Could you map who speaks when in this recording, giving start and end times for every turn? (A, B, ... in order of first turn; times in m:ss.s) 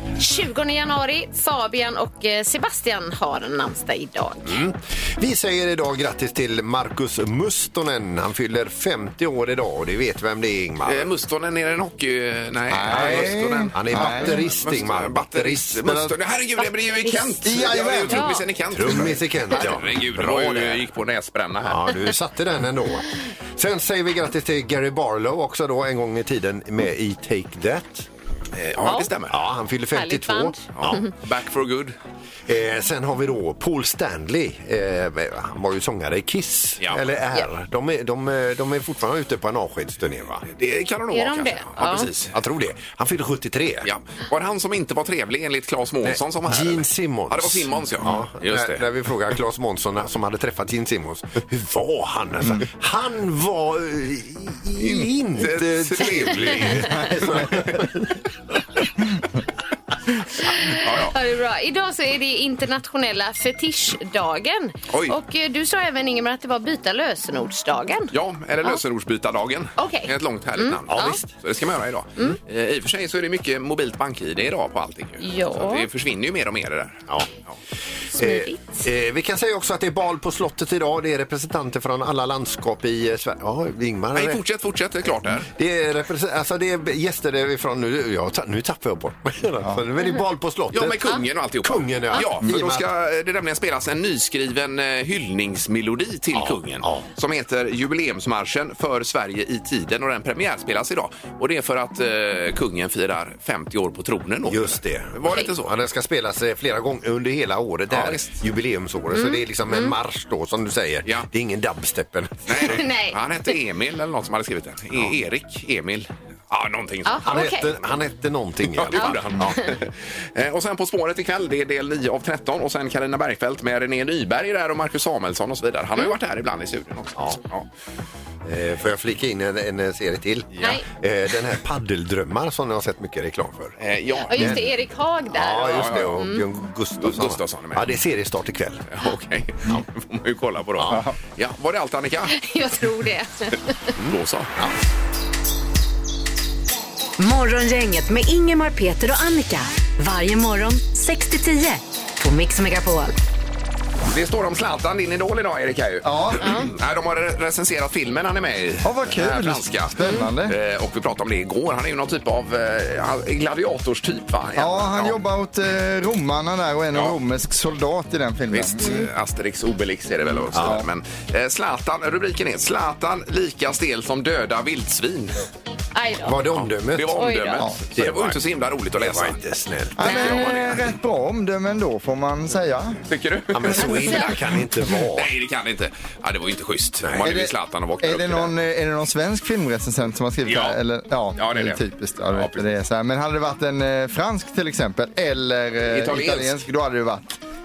0:00.2-0:04.6 A
0:04.4-0:11.1 B
0:10.8-0:21.9 C
0:12.7-0:14.4 D
0:12.9-0:15.9 B
0:15.8-0:16.1 D
0:17.0-0:18.4 A
0:17.4-0:18.3 D
0:18.7-0:20.9 B
0:21.6-0:28.1 B
0:28.5-0:29.4 C
0:28.8-0:29.1 A
0:29.3-0:31.0 B
0:29.9-0:31.1 A
0:30.8-0:32.0 C
0:32.5-0:40.4 B
0:36.8-0:37.1 C
0:40.4-0:42.3 C
0:41.1-0:42.1 A
0:42.2-0:43.9 B
0:43.8-0:48.8 C
0:46.0-0:57.8 B
0:54.8-0:57.7 C
1:00.4-1:08.1 A
1:00.7-1:01.1 C
1:04.9-1:05.1 C
1:08.1-1:17.5 C
1:09.8-1:11.2 A
1:10.9-1:11.3 B
1:15.2-1:15.9 A
1:18.1-1:18.8 A
1:18.1-1:24.4 B
1:24.1-1:25.5 C
1:25.4-1:32.8 B
1:30.7-1:45.7 C
1:36.3-1:37.0 B
1:44.4-1:52.7 B
1:47.9-1:48.4 C
1:49.1-1:49.9 A
1:52.5-1:57.4 C
1:52.5-1:53.5 A
1:57.0-1:57.7 A
1:57.2-1:59.6 B
1:58.6-2:07.7 C
1:58.9-1:59.7 A
2:08.4-2:13.8 B
2:13.8-2:14.6 C
2:14.3-2:16.4 A
2:14.3-2:14.6 B
2:15.3-2:18.8 B
2:15.6-2:16.2 C
2:17.0-2:18.0 C
2:18.9-2:22.3 C
2:20.8-2:21.0 B
2:22.3-2:23.6 A
2:24.0-2:24.7 B
2:24.0-2:24.5 C
2:27.2-2:33.1 E
2:34.1-2:45.2 C
2:36.0-2:36.7 D
2:36.4-2:36.7 A
2:38.8-2:40.5 D
2:40.0-2:40.3 A
2:44.6-2:49.1 D
2:48.5-2:55.4 C
2:50.4-2:50.9 D
2:55.9-2:56.4 A
2:56.2-2:57.3 B
2:56.5-2:59.4 C
2:57.1-2:57.6 A
2:57.9-2:58.4 B
2:58.9-3:00.8 B
3:00.0-3:03.0 D
3:00.0-3:00.5 A
3:00.4-3:00.7 C
3:03.1-3:08.5 C
3:03.5-3:05.3 B
3:03.8-3:04.3 A
3:07.0-3:07.3 B
3:07.2-3:17.3 D
3:10.4-3:10.8 C
3:11.3-3:12.6 C
3:15.9-3:16.6 C